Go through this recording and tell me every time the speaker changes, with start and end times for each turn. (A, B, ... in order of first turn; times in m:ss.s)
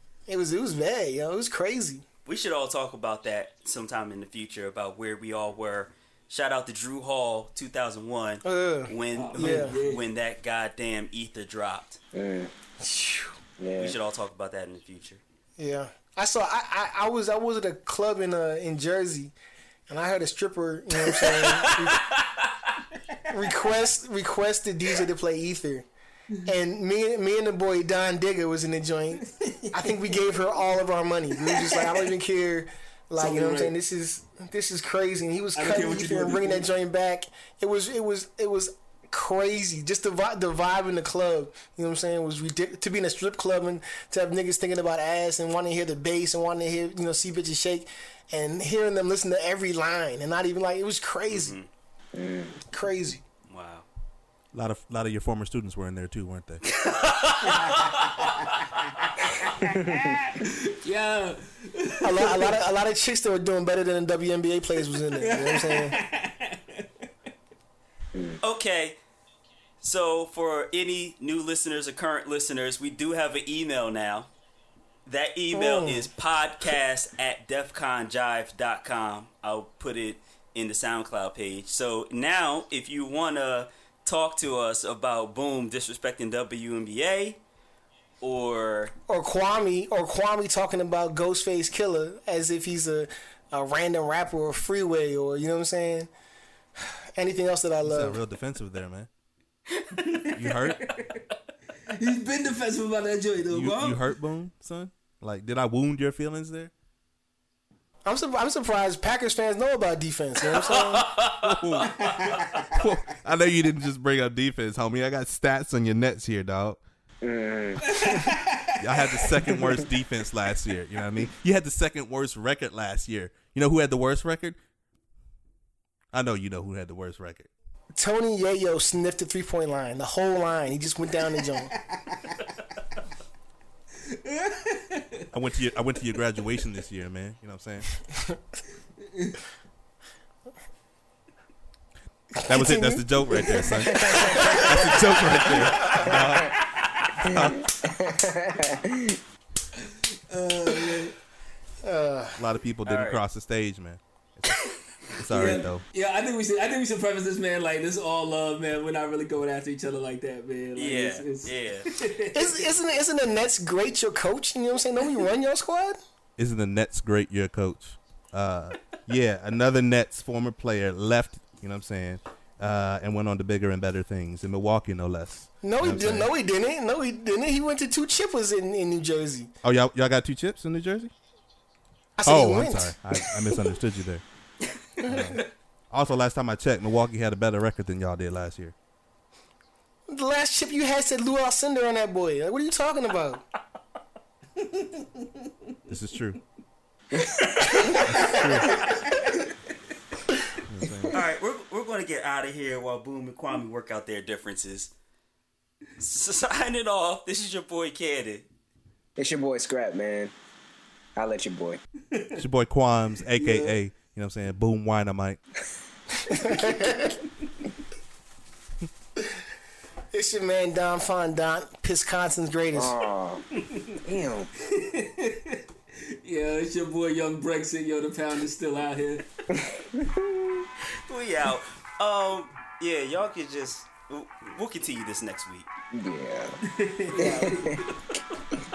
0:00.3-0:02.0 A
0:02.3-0:12.0 B
0:08.4-0:09.8 A
0:09.2-0:10.0 C
0:12.1-0:12.5 D
0:12.8-0:13.4 A
0:13.6-0:14.0 D
0:13.8-0:15.2 B
0:15.6-0:19.4 A
0:19.9-0:22.0 A
0:21.4-0:22.5 B
0:23.3-0:25.9 A
0:26.5-0:51.5 A
0:29.3-0:29.8 C
0:31.4-0:31.9 C
0:33.2-0:33.7 C
0:35.6-0:36.7 C
0:51.3-0:51.7 B
0:52.2-0:52.6 D
0:52.7-0:53.2 A
0:53.5-0:53.9 B
0:54.5-0:56.7 E
0:56.7-0:58.4 B
0:57.5-0:58.4 C
0:59.0-0:59.5 B
0:59.6-1:02.6 C
0:59.7-1:00.2 D
1:02.0-1:06.0 A
1:05.2-1:06.9 C
1:08.1-1:08.4 D
1:08.4-1:09.0 B
1:09.8-1:14.3 B
1:15.1-1:27.4 B
1:15.5-1:16.1 A
1:28.2-1:28.9 B
1:29.1-1:36.1 A
1:36.8-1:38.2 A
1:37.8-1:39.1 E
1:40.0-1:41.2 C
1:40.3-1:40.9 E
1:41.9-1:44.0 C
1:43.5-1:46.7 E
1:48.1-1:51.1 A
1:50.5-1:52.4 B
1:51.4-1:52.2 E
1:51.9-1:52.9 C
1:52.8-1:56.8 E
1:57.2-1:58.1 D
1:57.8-1:59.6 C
1:58.8-2:04.6 E
2:06.1-2:07.5 E
2:08.0-2:11.7 A
2:11.8-2:12.4 C
2:14.0-2:15.2 C
2:15.3-2:18.0 E
2:19.0-2:19.4 C
2:22.4-2:27.7 E
2:22.5-2:24.9 A
2:23.9-2:24.6 D
2:25.5-2:26.0 A
2:26.0-2:26.5 D
2:27.3-2:29.2 D
2:29.8-2:31.2 C
2:31.8-2:32.4 A
2:32.4-2:35.8 E
2:32.9-2:33.2 B
2:35.3-2:42.7 C
2:40.8-2:41.9 B
2:42.3-2:46.0 A
2:46.4-2:56.3 E
2:55.6-2:59.5 A
2:59.6-3:01.1 E
3:02.2-3:03.0 A
3:02.3-3:04.2 E
3:05.1-3:08.7 E
3:10.1-3:13.4 A
3:14.6-3:15.3 C
3:15.9-3:16.4 E
3:18.0-3:19.5 C
3:18.0-3:19.0 E
3:20.7-3:21.1 E
3:21.1-3:24.9 B
3:26.0-3:28.5 B
3:29.2-3:30.3 D
3:31.2-3:31.8 D
3:32.1-3:32.4 C
3:32.4-3:35.4 E
3:33.3-3:33.8 C
3:36.3-3:37.1 A
3:40.1-3:43.0 A
3:42.7-3:43.4 D
3:43.6-3:44.0 C
3:44.0-3:44.5 D
3:44.6-3:45.6 C
3:46.2-3:49.2 C
3:49.5-3:50.6 D
3:51.1-3:55.7 B
3:55.9-3:56.6 D
3:56.7-3:57.9 C
3:57.2-3:57.9 D